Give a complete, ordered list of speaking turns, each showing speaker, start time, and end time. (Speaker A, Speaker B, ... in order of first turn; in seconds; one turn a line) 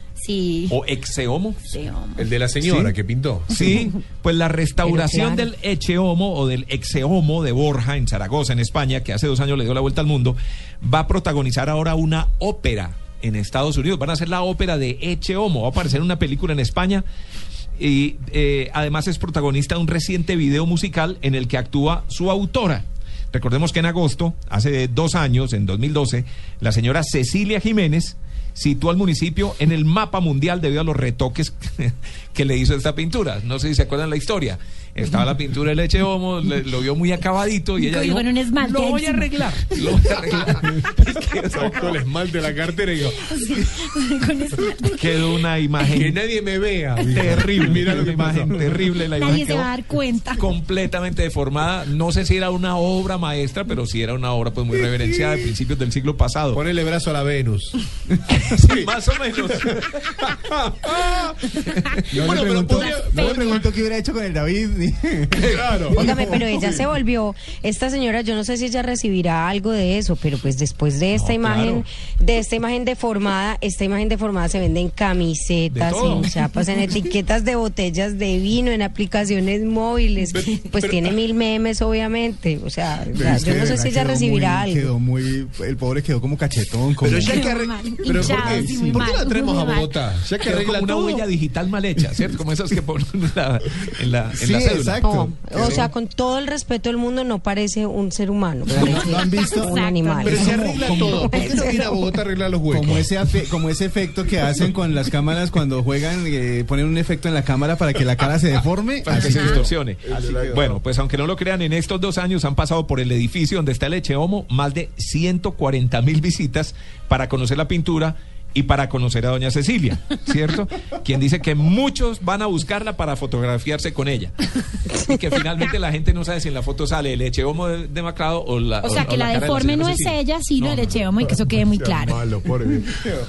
Speaker A: 0.2-0.8
Speaker B: 0.7-1.7
Speaker A: 1.7-2.3
Speaker C: 2.1-3.7
Speaker B: 2.6-2.9
Speaker B: 3.5-17.0
Speaker D: 4.8-5.5
Speaker B: 17.8-42.0
Speaker A: 37.8-40.1
Speaker C: 41.5-43.3
Speaker A: 43.2-45.4
Speaker B: 44.9-46.2
Speaker C: 45.9-48.6
Speaker B: 47.1-49.7
Speaker A: 49.2-50.5
Speaker B: 50.3-56.6
Speaker C: 56.5-57.8
Speaker C: 58.4-58.9
Speaker B: 58.5-60.0
Speaker C: 59.6-61.4
Speaker C: 62.1-63.6
Speaker E: 62.1-66.7
Speaker A: 62.1-63.6
Speaker C: 65.4-66.8
Speaker D: 65.9-84.9
Speaker B: 71.1-71.8
Speaker B: 75.7-76.3
Speaker C: 80.3-81.1
Speaker E: 83.1-87.5
Speaker C: 87.0-91.2
Speaker A: 87.2-89.9
Speaker E: 88.2-88.8
Speaker B: 90.4-95.0
Speaker E: 94.3-95.9
Speaker D: 95.0-100.7
Speaker C: 95.6-95.8
Speaker E: 98.7-101.8
Speaker A: 98.8-101.8
Speaker C: 100.2-103.1
Speaker D: 101.3-101.8
Speaker E: 102.7-109.6
Speaker B: 109.0-124.3
Speaker A: 109.1-109.6
Speaker C: 109.2-110.8
Speaker B: 124.9-131.0
Speaker A: 128.8-132.3
Speaker C: 131.6-133.1